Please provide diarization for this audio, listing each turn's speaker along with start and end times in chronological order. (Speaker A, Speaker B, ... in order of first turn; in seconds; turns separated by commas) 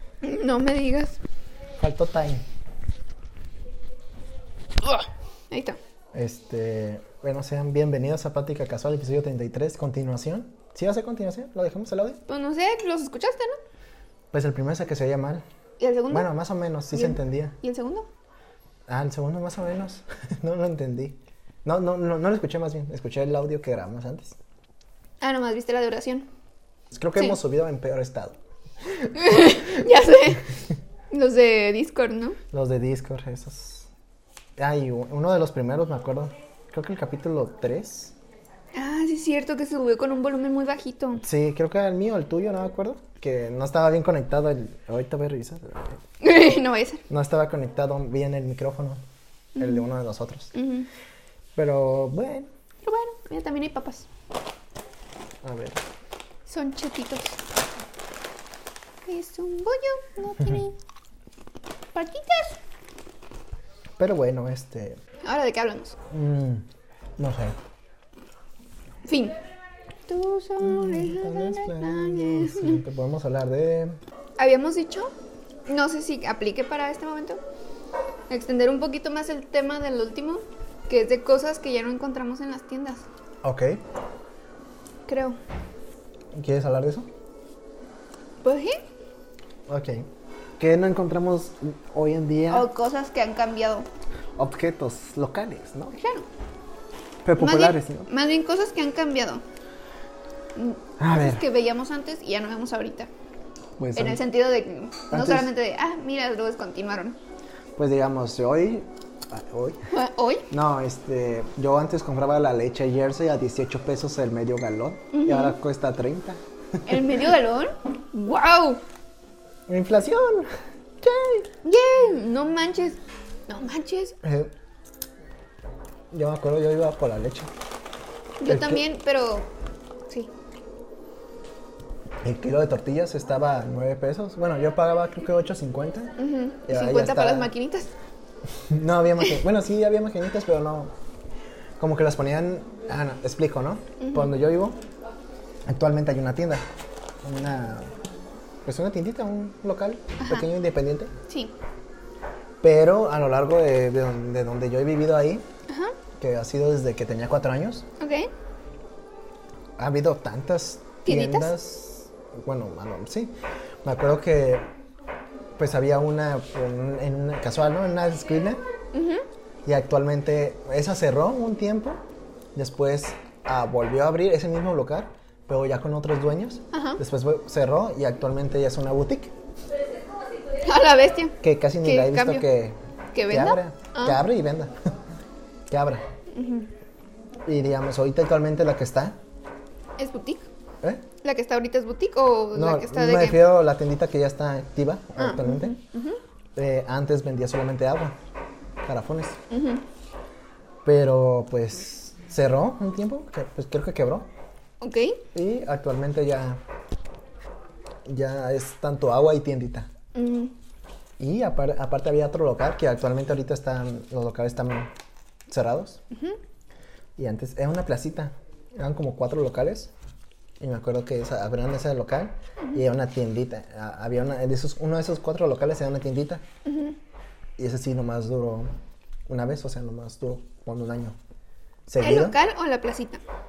Speaker A: 0.2-1.2, Speaker B: 1.8-2.4, Speaker A: 4.8-5.8, Speaker B: 6.1-12.2, Speaker A: 12.3-13.6, Speaker B: 14.3-15.4, Speaker A: 15.8-16.3, Speaker B: 16.1-17.6, Speaker A: 16.9-18.1, Speaker B: 18.9-24.4, Speaker A: 25.2-26.3, Speaker B: 26.9-29.6, Speaker A: 29.1-30.5, Speaker A: 31.1-32.4, Speaker B: 32.5-33.9, Speaker B: 34.6-38.2, Speaker A: 38.7-41.2, Speaker B: 41.2-46.0, Speaker A: 46.2-47.0, Speaker B: 47.1-49.0, Speaker A: 49.6-49.9, Speaker B: 49.6-50.5, Speaker A: 50.5-50.9, Speaker B: 51.6-52.5, Speaker A: 52.9-54.1, Speaker B: 55.4-55.8, Speaker A: 56.5-57.4, Speaker A: 59.0-60.8, Speaker A: 62.0-62.6, Speaker B: 64.0-65.0, Speaker A: 65.2-66.0, Speaker B: 66.1-66.7, Speaker B: 67.2-67.6, Speaker A: 69.0-69.3, Speaker A: 70.1-72.8, Speaker B: 70.6-74.0, Speaker A: 74.4-75.1, Speaker A: 75.7-77.4, Speaker A: 78.3-83.1, Speaker B: 83.4-83.8, Speaker A: 85.1-85.4, Speaker B: 86.3-87.1, Speaker A: 88.4-88.8, Speaker B: 89.7-90.1, Speaker B: 90.6-92.7, Speaker A: 92.5-93.9, Speaker B: 94.4-96.0, Speaker A: 95.9-96.3, Speaker B: 97.2-98.1, Speaker A: 97.4-99.4, Speaker A: 100.6-103.1, Speaker B: 101.0-101.4, Speaker B: 103.8-104.2, Speaker A: 104.0-107.2, Speaker B: 105.1-105.5, Speaker B: 107.8-109.8, Speaker A: 109.9-110.5, Speaker B: 110.5-117.1, Speaker A: 115.1-115.6, Speaker A: 116.9-118.8, Speaker B: 119.7-121.5, Speaker A: 121.6-124.2, Speaker B: 124.2-124.5, Speaker B: 126.1-127.5, Speaker A: 128.4-129.5, Speaker B: 128.5-128.8, Speaker B: 132.2-136.1, Speaker A: 136.2-137.9, Speaker B: 136.7-137.5, Speaker B: 138.6-140.9, Speaker B: 141.8-144.8, Speaker A: 144.0-144.3, Speaker B: 145.7-146.7, Speaker B: 147.2-147.9, Speaker B: 148.7-151.1, Speaker A: 150.2-150.5, Speaker A: 151.3-151.5, Speaker B: 152.6-155.4, Speaker A: 155.7-155.9, Speaker B: 156.2-157.9, Speaker A: 158.0-158.3, Speaker B: 159.8-163.3, Speaker A: 161.1-161.5, Speaker B: 163.8-164.6, Speaker B: 165.6-168.6, Speaker A: 168.9-169.2, Speaker B: 169.7-172.0, Speaker B: 172.6-179.3, Speaker A: 176.7-177.0, Speaker A: 180.6-182.5, Speaker B: 181.4-182.8, Speaker A: 183.1-184.2, Speaker B: 183.3-184.9, Speaker B: 185.7-186.0, Speaker A: 186.3-186.7, Speaker B: 187.4-189.2, Speaker A: 190.0-190.5, Speaker A: 191.2-193.4, Speaker B: 192.6-195.8, Speaker A: 195.2-196.2, Speaker B: 196.6-198.2, Speaker B: 198.8-199.4, Speaker A: 199.5-199.8, Speaker B: 200.8-204.3, Speaker A: 204.8-205.2, Speaker B: 205.3-206.6, Speaker B: 208.1-209.9, Speaker A: 210.2-210.5, Speaker B: 211.2-214.9, Speaker B: 215.5-216.0, Speaker A: 216.1-216.4, Speaker B: 217.2-219.9, Speaker B: 220.6-226.4, Speaker A: 226.7-227.0, Speaker B: 227.6-228.7, Speaker B: 229.3-231.2, Speaker B: 231.9-232.4, Speaker A: 232.0-233.2